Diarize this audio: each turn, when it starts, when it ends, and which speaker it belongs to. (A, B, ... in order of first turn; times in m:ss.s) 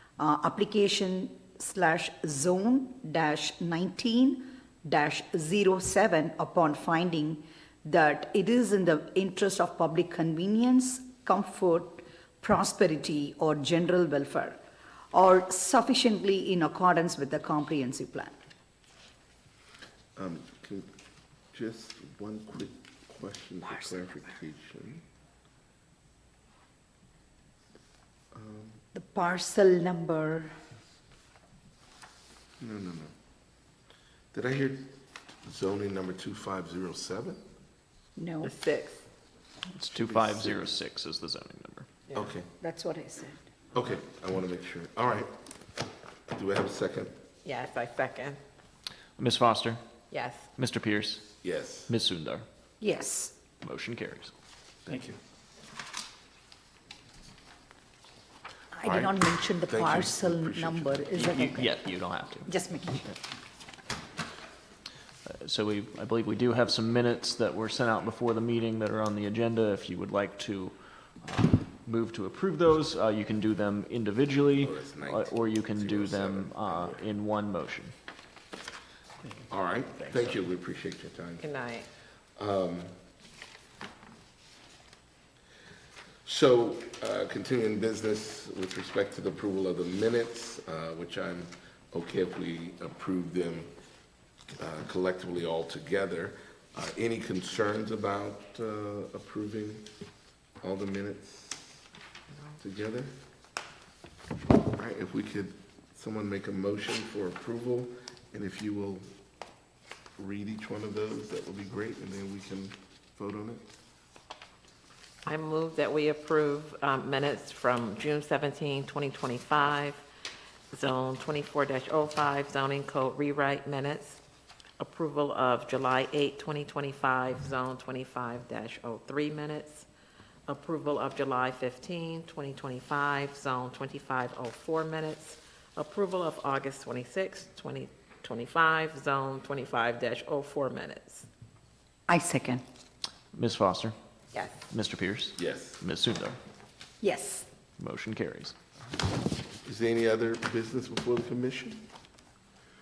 0:00.2-0:14.6 A
0:15.1-0:18.4 A
0:20.2-0:20.9 B
0:21.5-0:25.0 B
0:28.3-0:28.8 B
0:28.9-0:30.6 A
0:32.6-0:33.1 B
0:34.3-0:37.4 B
0:38.2-0:38.5 A
0:38.4-0:39.0 C
0:39.7-0:41.9 D
0:39.9-0:40.7 B
0:42.1-0:42.5 B
0:42.6-0:43.5 A
0:43.7-0:45.4 B
0:46.3-0:47.1 B
0:47.4-0:48.4 C
0:49.2-0:49.8 D
0:50.1-0:50.5 C
0:50.6-0:52.4 D
0:51.4-0:51.9 B
0:52.8-0:53.4 A
0:53.6-0:54.3 D
0:54.8-0:55.2 B
0:58.7-1:01.7 A
0:58.8-1:01.3 B
1:01.2-1:02.5 D
1:02.5-1:03.2 A
1:05.2-1:17.9 D
1:14.6-1:17.0 B
1:19.5-1:21.5 B
1:21.4-1:21.9 C
1:22.4-1:22.9 B
1:26.2-1:33.7 B
1:34.6-1:39.9 B
1:40.6-1:41.8 B
1:42.6-1:43.1 B
1:44.5-1:49.1 B
1:50.2-1:53.6 B
1:55.2-2:00.0 C
2:00.7-2:04.2 C
2:04.8-2:09.9 C
2:10.5-2:21.3 C
2:22.1-2:22.6 A
2:23.3-2:23.9 D
2:24.3-2:24.6 C
2:24.7-2:26.4 D
2:25.4-2:25.8 B
2:27.0-2:27.5 A
2:27.8-2:28.5 D
2:29.6-2:31.8 B